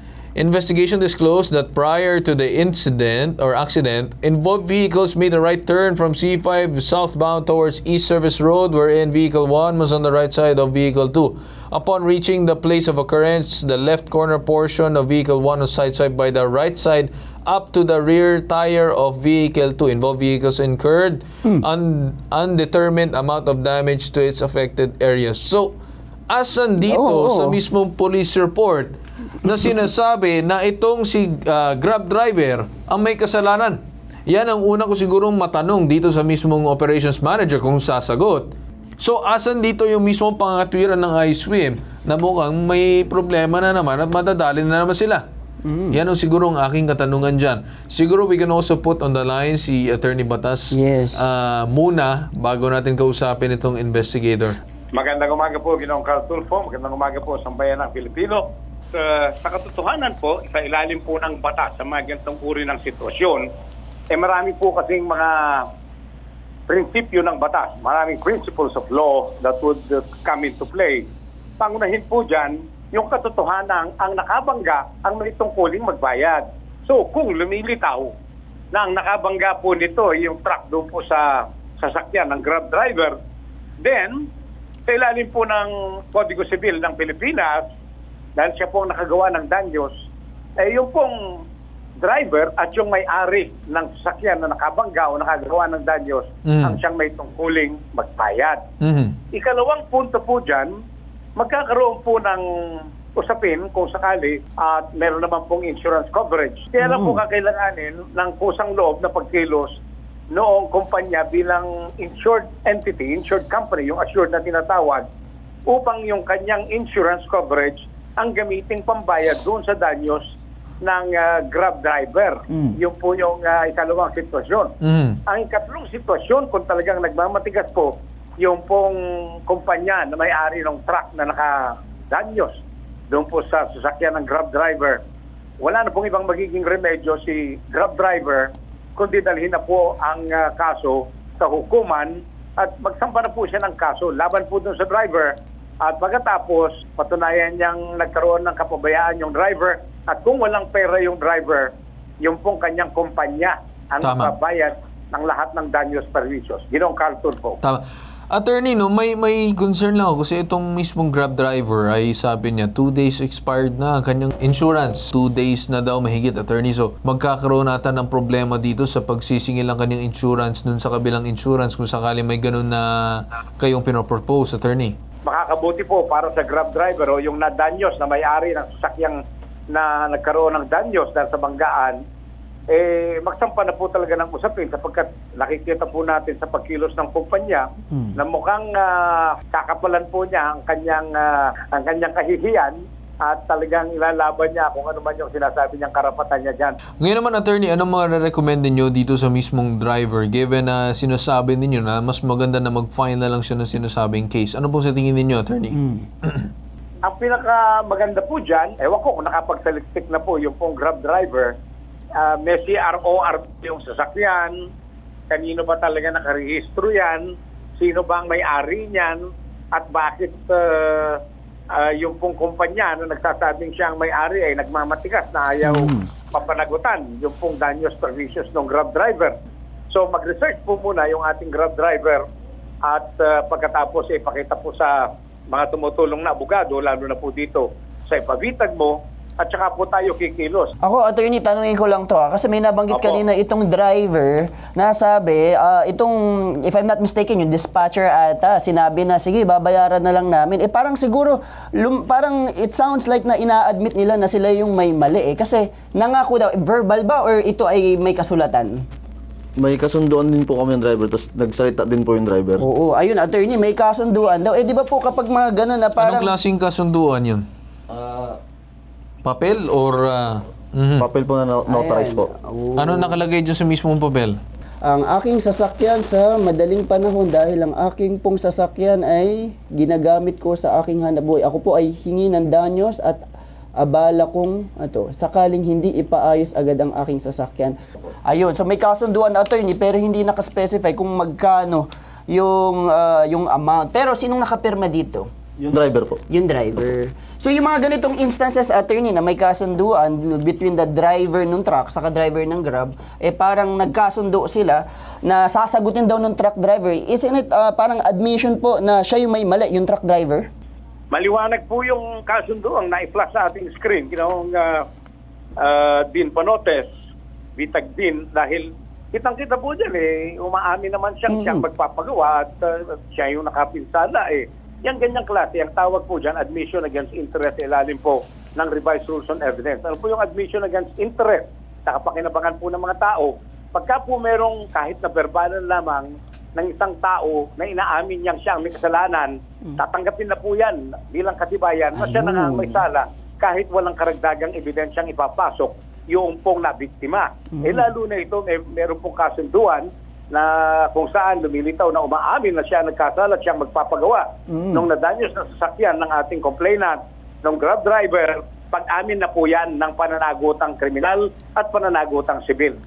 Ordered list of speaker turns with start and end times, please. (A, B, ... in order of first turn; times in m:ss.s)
0:00.4-0:25.8 A
0:26.3-0:38.5 A
0:26.9-0:27.6 B
0:39.0-0:45.2 A
0:45.6-0:46.0 B
0:45.9-0:54.6 A
0:50.7-0:51.3 B
0:55.0-1:03.5 C
1:04.1-1:05.7 C
1:06.7-1:11.0 C
1:11.6-1:18.1 C
1:18.7-1:23.2 C
1:23.8-1:24.2 C
1:24.9-1:27.6 C
1:28.4-1:29.9 C
1:30.6-1:31.2 C
1:32.0-1:38.6 C
1:36.5-1:36.8 A
1:38.8-1:39.2 A
1:39.3-1:40.7 C
1:41.4-1:42.4 C
1:43.2-1:49.7 C
1:46.8-1:47.2 B
1:50.3-1:55.1 C
1:55.7-2:00.2 C
2:00.8-2:04.7 C
2:04.8-2:05.2 A
2:05.3-2:12.6 C
2:13.1-2:15.0 C
2:15.6-2:25.3 C
2:25.8-2:31.7 C
2:32.2-2:37.6 C
2:34.0-2:34.3 A
2:37.6-2:55.0 A
2:55.2-2:59.2 C
2:59.7-3:02.0 C
3:02.7-3:16.8 C
3:17.0-3:26.5 A
3:27.0-3:31.5 C
3:32.2-3:34.6 C
3:35.3-3:37.3 C
3:37.8-3:39.2 C
3:39.7-3:41.2 C
3:41.7-3:49.4 C
3:45.6-3:46.0 B
3:49.9-3:52.2 C
3:52.8-4:00.7 C
4:00.8-4:18.8 B
4:02.9-4:03.2 C
4:19.6-4:22.6 D
4:22.6-4:26.3 B
4:26.0-4:27.4 A
4:27.9-4:28.4 D
4:29.2-4:31.1 A
4:31.0-4:32.3 D
4:31.7-4:33.2 B
4:32.8-4:34.4 A
4:34.9-4:43.2 B
4:43.8-4:55.3 B
4:55.6-4:56.2 D
4:56.3-5:10.5 B
5:11.1-5:14.8 C
5:15.6-5:16.9 C
5:17.6-6:02.8 C
5:42.0-5:42.8 B
5:54.5-5:54.8 B